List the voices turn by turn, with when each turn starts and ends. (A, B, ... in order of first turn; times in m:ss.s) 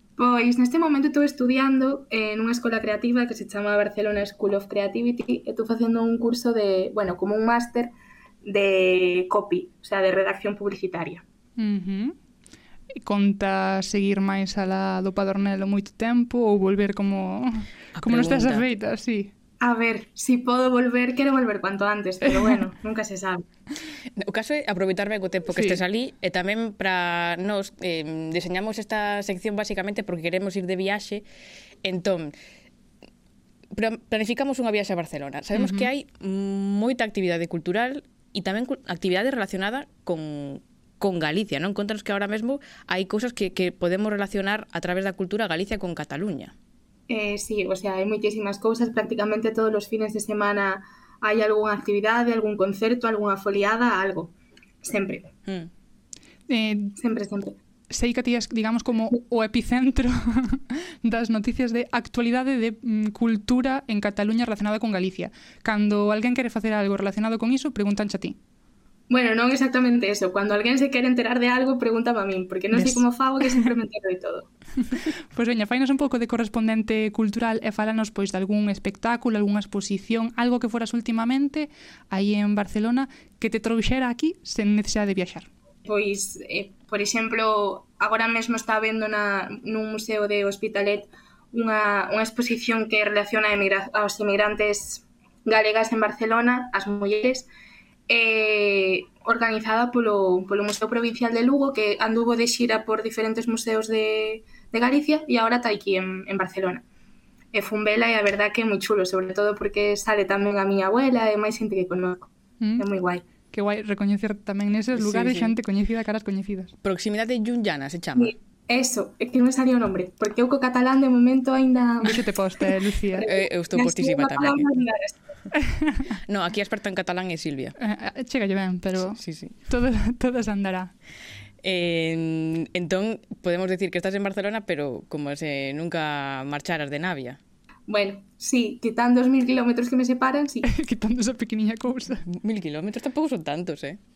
0:00.2-0:07.9 A
0:08.4-0:11.2 A
0:11.6-0:12.2 B
0:13.0-0:19.3 B
0:17.9-0:18.6 C
0:19.6-0:23.4 A
0:22.2-0:22.6 B
0:24.2-0:31.2 C
0:25.5-0:25.8 B
0:31.8-0:32.3 C
0:33.7-0:46.5 C
0:35.5-0:35.9 B
0:47.1-0:55.3 A
0:56.5-0:56.9 B
0:57.0-0:57.6 A
0:57.9-1:08.4 B
1:09.1-1:14.5 A
1:12.7-1:13.0 B
1:14.9-1:25.5 B
1:25.8-1:37.5 A
1:38.1-1:46.8 A
1:47.5-1:53.2 A
1:52.6-1:52.9 B
1:53.5-1:56.7 B
1:54.9-1:55.6 C
1:56.8-1:58.4 C
1:58.2-2:02.3 A
2:02.0-2:03.3 B
2:03.2-2:05.2 A
2:03.2-2:04.8 C
2:05.7-2:06.0 B
2:06.3-2:07.8 C
2:07.8-2:10.9 B
2:09.1-2:09.6 C
2:11.6-2:17.4 C
2:17.9-2:20.6 A
2:20.6-2:22.2 B
2:22.3-2:24.0 C